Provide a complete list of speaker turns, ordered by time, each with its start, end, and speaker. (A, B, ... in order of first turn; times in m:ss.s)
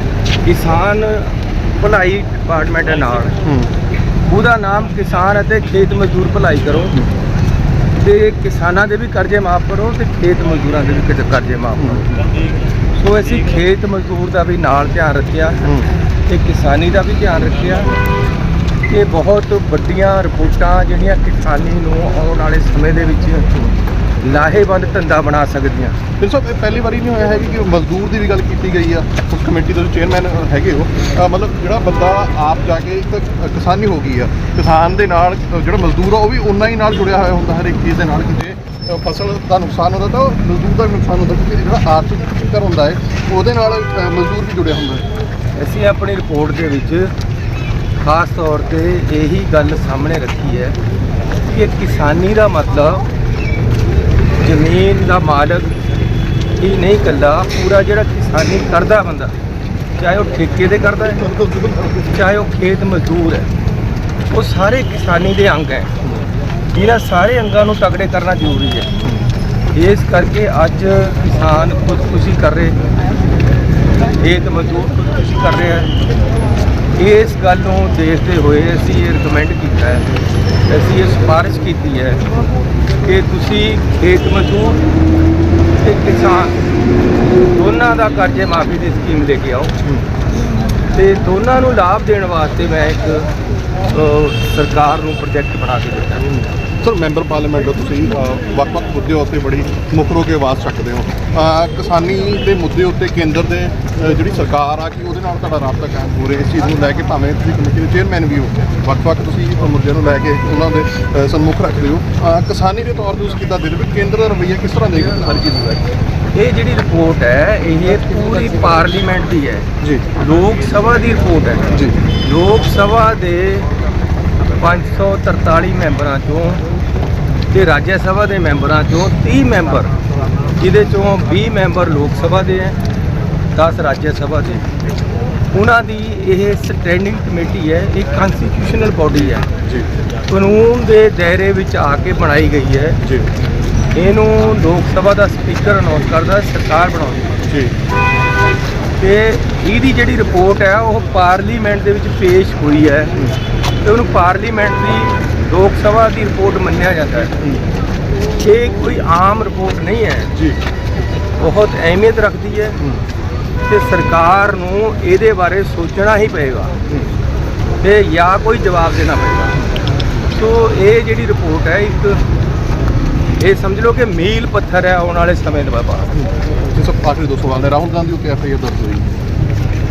0:00.4-0:03.4 A
0:03.4-0:03.7 B
0:04.2-0:07.0 A
0:07.9-0:12.2 A
0:12.9-0:15.7 A
0:16.3-0:17.9 A
0:18.9-0:23.5 A
0:24.2-0:26.0 A
0:26.2-0:45.1 B
0:45.6-0:47.1 A
0:48.0-0:50.8 A
0:51.4-0:53.1 A
0:54.4-0:55.8 A
0:56.6-0:59.3 A
0:59.9-1:01.3 A
1:02.0-1:03.5 A
1:04.3-1:05.9 A
1:06.7-1:08.9 A
1:09.7-1:12.8 A
1:14.1-1:15.9 A
1:17.0-1:20.0 A
1:20.7-1:22.2 A
1:23.0-1:24.8 A
1:25.8-1:26.6 A
1:27.5-1:29.8 A
1:30.9-1:33.3 A
1:33.9-1:36.3 A
1:36.3-1:55.5 B
1:55.1-2:03.7 A
1:59.8-2:00.0 B
2:04.4-2:06.6 A
2:07.5-2:10.0 A
2:10.5-2:12.8 A
2:13.5-2:14.7 A
2:15.5-2:19.5 A
2:20.3-2:23.0 A
2:23.9-2:27.4 A
2:27.5-2:27.7 B
2:29.0-2:33.1 A
2:33.8-2:37.4 A
2:38.4-2:40.3 A
2:41.4-2:42.8 A
2:43.7-2:46.8 A
2:47.8-2:49.6 A
2:50.3-2:52.2 A
2:53.4-2:56.2 A
2:56.7-2:59.2 B